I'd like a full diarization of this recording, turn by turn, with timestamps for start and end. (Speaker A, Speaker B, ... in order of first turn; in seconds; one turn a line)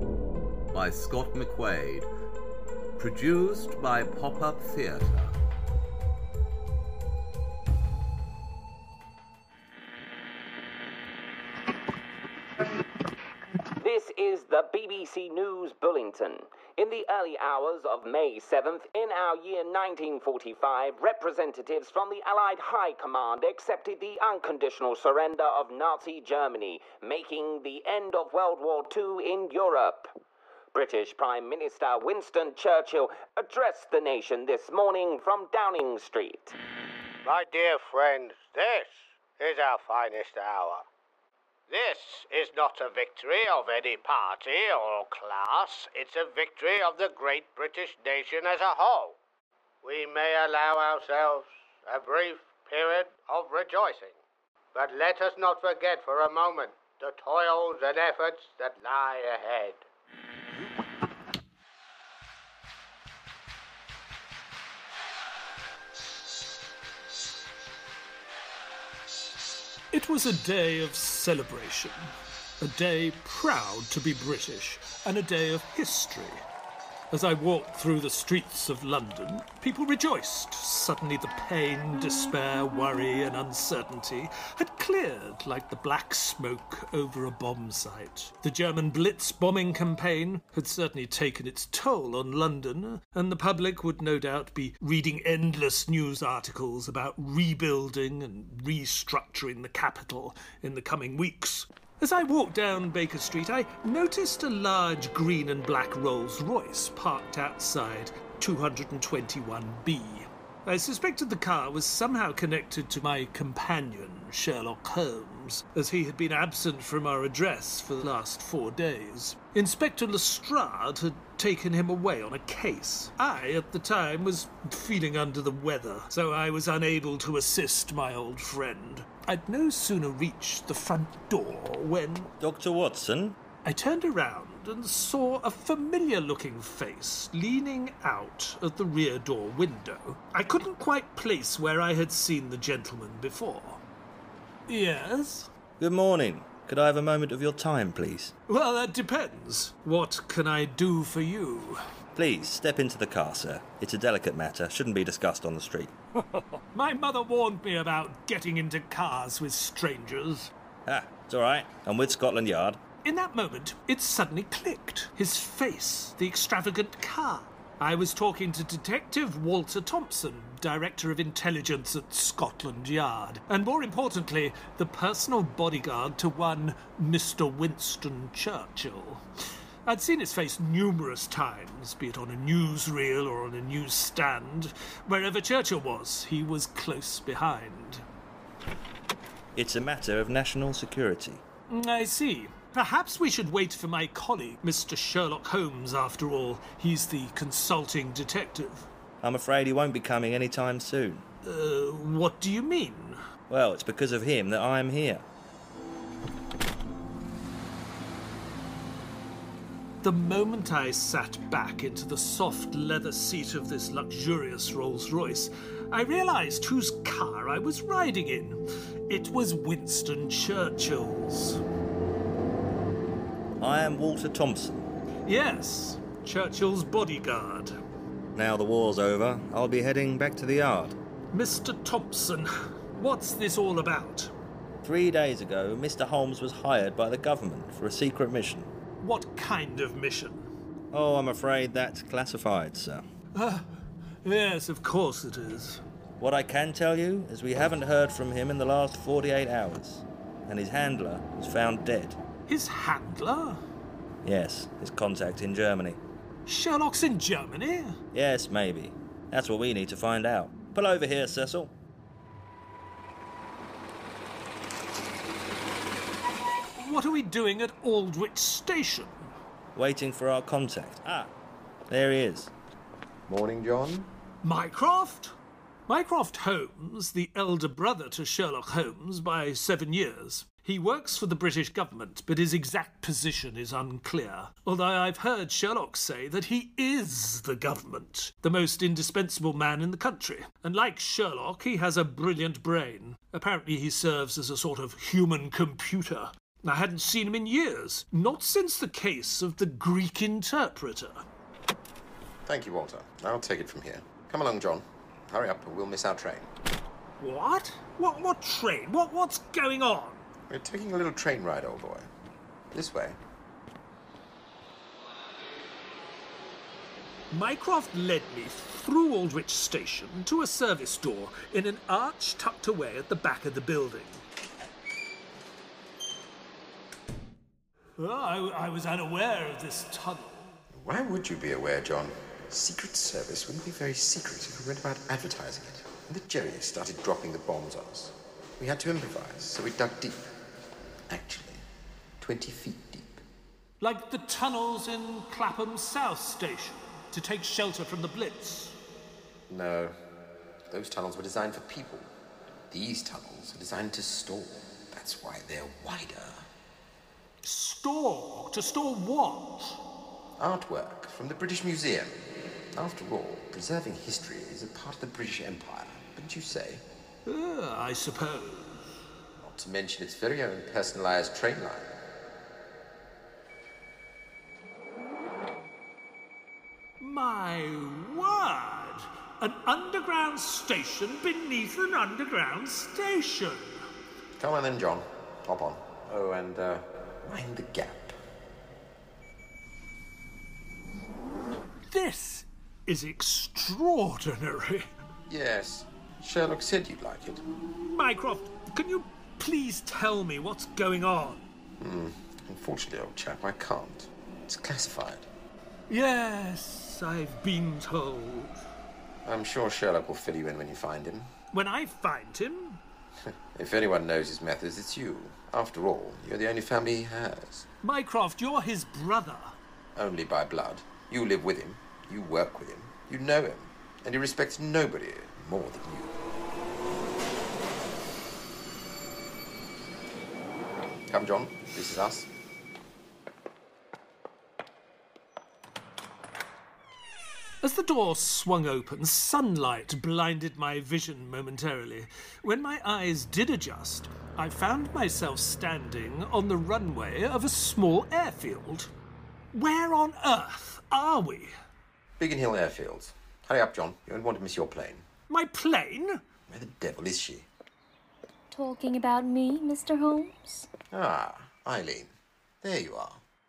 Speaker A: 0.7-2.1
Speaker A: 3.0-5.3
Speaker B: 13.8-30.1
Speaker B: 30.7-36.5
Speaker C: 37.2-40.8
Speaker C: 41.7-49.1
Speaker C: 49.8-54.1
Speaker C: 54.7-59.8
Speaker D: 69.9-76.4
Speaker D: 77.1-132.3
Speaker E: 132.4-133.4
Speaker D: 133.6-143.8
Speaker D: 144.7-145.5
Speaker E: 145.8-148.3
Speaker D: 148.5-151.8
Speaker E: 152.1-155.9
Speaker D: 156.7-160.5
Speaker E: 160.8-162.8
Speaker D: 163.0-179.2
Speaker D: 179.8-188.0
Speaker E: 189.5-191.4
Speaker D: 191.7-198.9
Speaker E: 199.2-201.2
Speaker D: 201.4-203.2
Speaker E: 203.5-205.2
Speaker D: 210.0-221.6
Speaker E: 223.6-224.8
Speaker D: 225.3-227.8
Speaker E: 228.3-231.0
Speaker D: 231.3-234.3
Speaker E: 234.8-238.7
Speaker D: 239.0-240.5
Speaker E: 240.9-243.0
Speaker D: 243.3-245.8
Speaker E: 246.2-252.2
Speaker D: 252.5-253.6
Speaker E: 254.2-256.0
Speaker D: 256.5-258.0
Speaker E: 258.1-261.7
Speaker D: 266.8-269.3
Speaker E: 269.7-271.3
Speaker E: 271.9-272.5
Speaker F: 273.3-274.1
Speaker D: 274.4-275.3
Speaker D: 275.9-301.2
Speaker F: 302.4-306.5
Speaker D: 307.2-310.2
Speaker F: 310.5-312.1
Speaker F: 312.7-313.2
Speaker D: 317.3-324.2
Speaker D: 328.0-330.6
Speaker F: 330.7-340.4
Speaker F: 341.1-341.6
Speaker F: 342.2-343.2
Speaker D: 343.8-348.8
Speaker F: 349.5-350.0
Speaker F: 350.7-352.1
Speaker F: 352.7-356.5
Speaker D: 357.4-359.8
Speaker F: 360.4-366.8
Speaker D: 367.2-368.9
Speaker F: 369.4-371.9
Speaker D: 377.0-383.8
Speaker F: 384.4-388.2
Speaker D: 391.9-394.9
Speaker F: 395.3-397.4
Speaker D: 397.8-401.4
Speaker F: 401.8-405.3
Speaker D: 405.9-408.6
Speaker F: 409.2-411.3
Speaker D: 411.5-412.8
Speaker F: 413.2-417.6
Speaker D: 417.8-419.6
Speaker F: 419.9-426.1
Speaker F: 431.1-432.3
Speaker D: 437.6-448.9
Speaker D: 449.5-451.5
Speaker F: 452.2-455.0
Speaker D: 455.3-456.2
Speaker F: 456.5-457.5
Speaker G: 458.5-460.7
Speaker F: 460.9-463.2